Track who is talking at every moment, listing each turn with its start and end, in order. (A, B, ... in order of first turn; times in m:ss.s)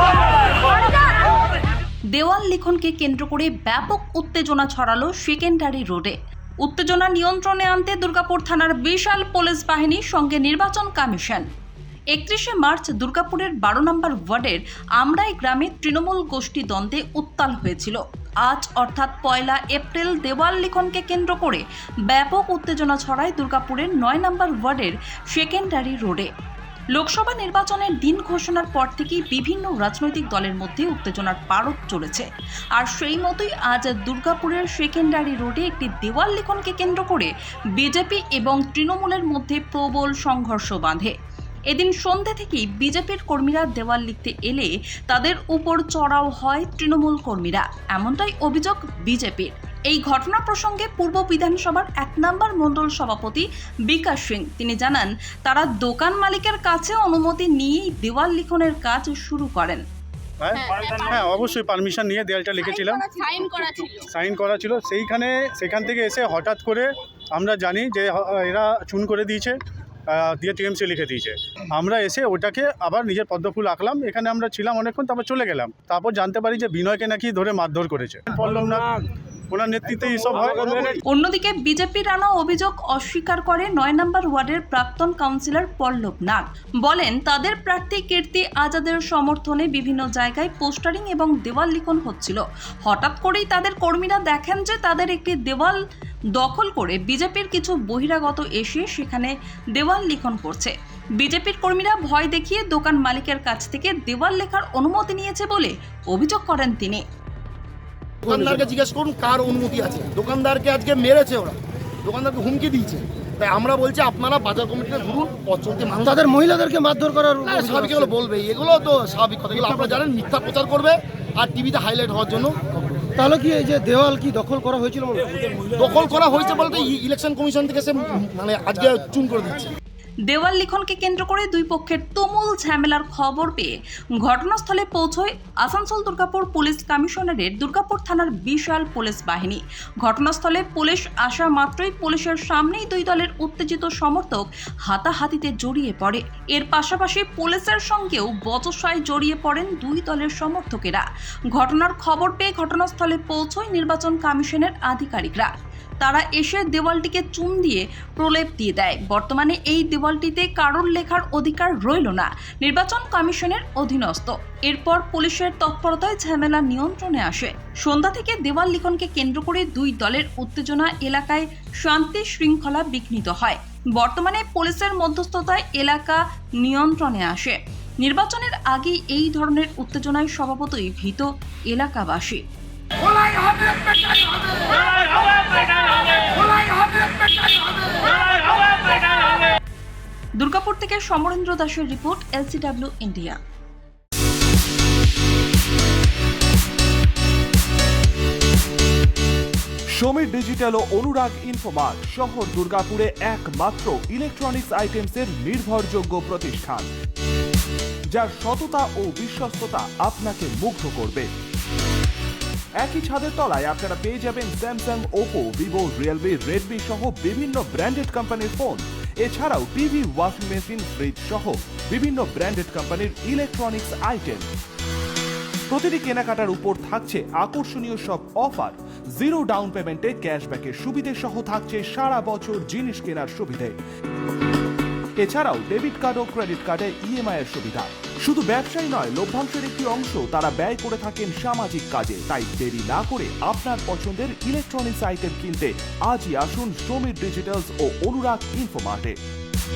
0:00.6-0:01.1 A
0:02.1-0:11.4 A
0:12.1-0:26.3 A
0:26.9-0:41.1 A
0:41.7-0:59.8 A
1:00.4-1:03.0 B
1:00.6-1:01.3 C
1:02.6-1:04.0 C
1:04.0-1:09.6 B
1:10.1-1:19.0 B
1:19.5-1:21.0 B
1:21.1-1:35.8 A
1:36.4-1:47.0 A
1:48.2-1:56.4 D
1:48.3-1:48.5 E
1:56.1-1:58.1 E
1:57.4-2:02.6 D
2:03.2-2:05.3 E
2:05.7-2:09.7 D
2:10.3-3:02.4 A
3:10.4-3:13.4 A
3:20.0-3:26.9 F
3:28.1-3:31.3 F
3:32.8-3:44.5 F
3:45.7-3:53.8 F
3:55.2-4:09.2 F